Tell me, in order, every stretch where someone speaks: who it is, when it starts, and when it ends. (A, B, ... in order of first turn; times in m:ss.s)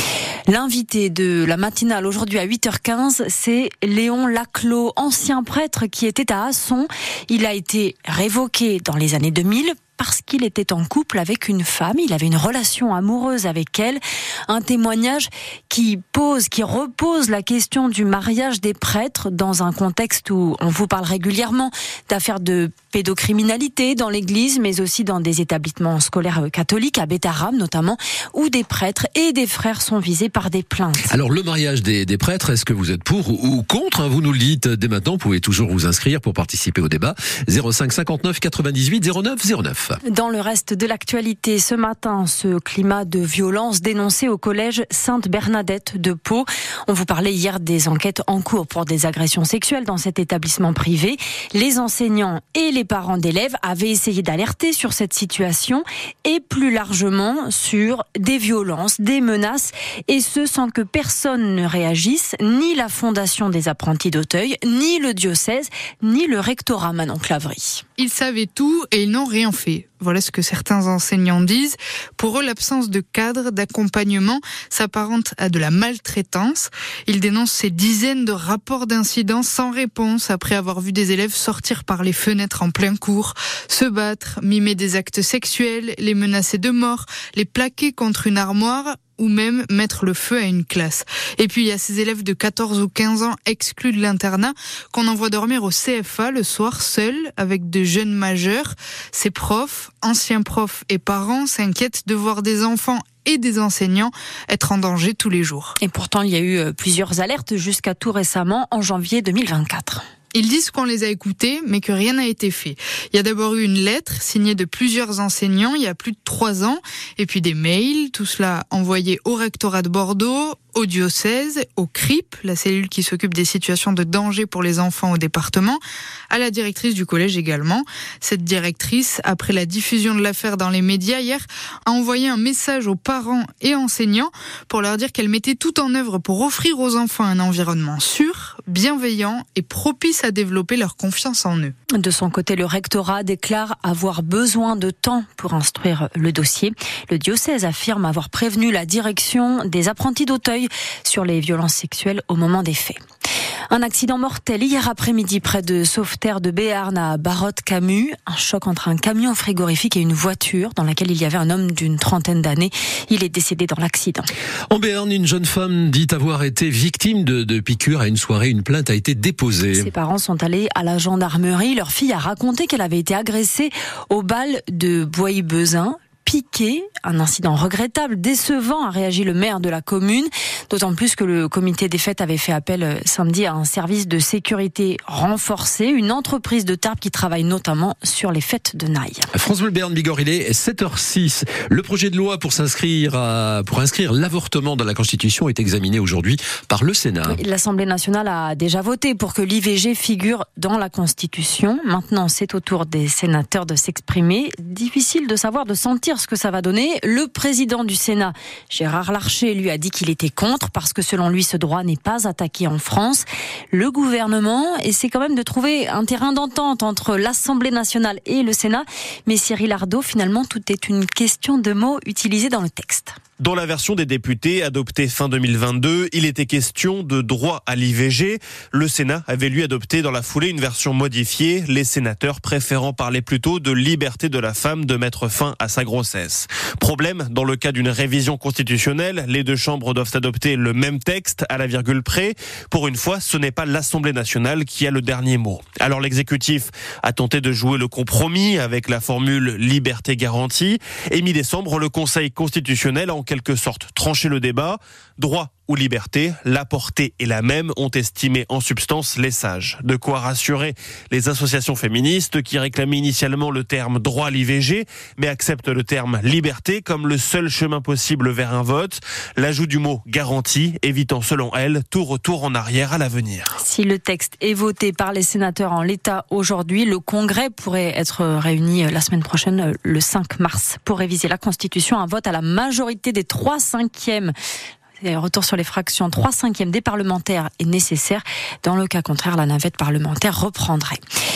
0:00.5-0:31.1 A
0:31.0-0:40.0 B
0:40.1-1:07.8 A
1:08.0-1:45.7 C
1:45.8-1:50.0 A
1:50.3-2:21.7 C
2:22.0-2:33.0 A
2:33.7-2:44.3 A
2:44.7-2:49.9 B
2:49.7-3:09.3 A
3:09.3-3:17.4 B
3:17.3-3:43.1 A
3:43.4-4:33.5 D
4:33.6-4:44.3 A
4:45.0-4:51.0 A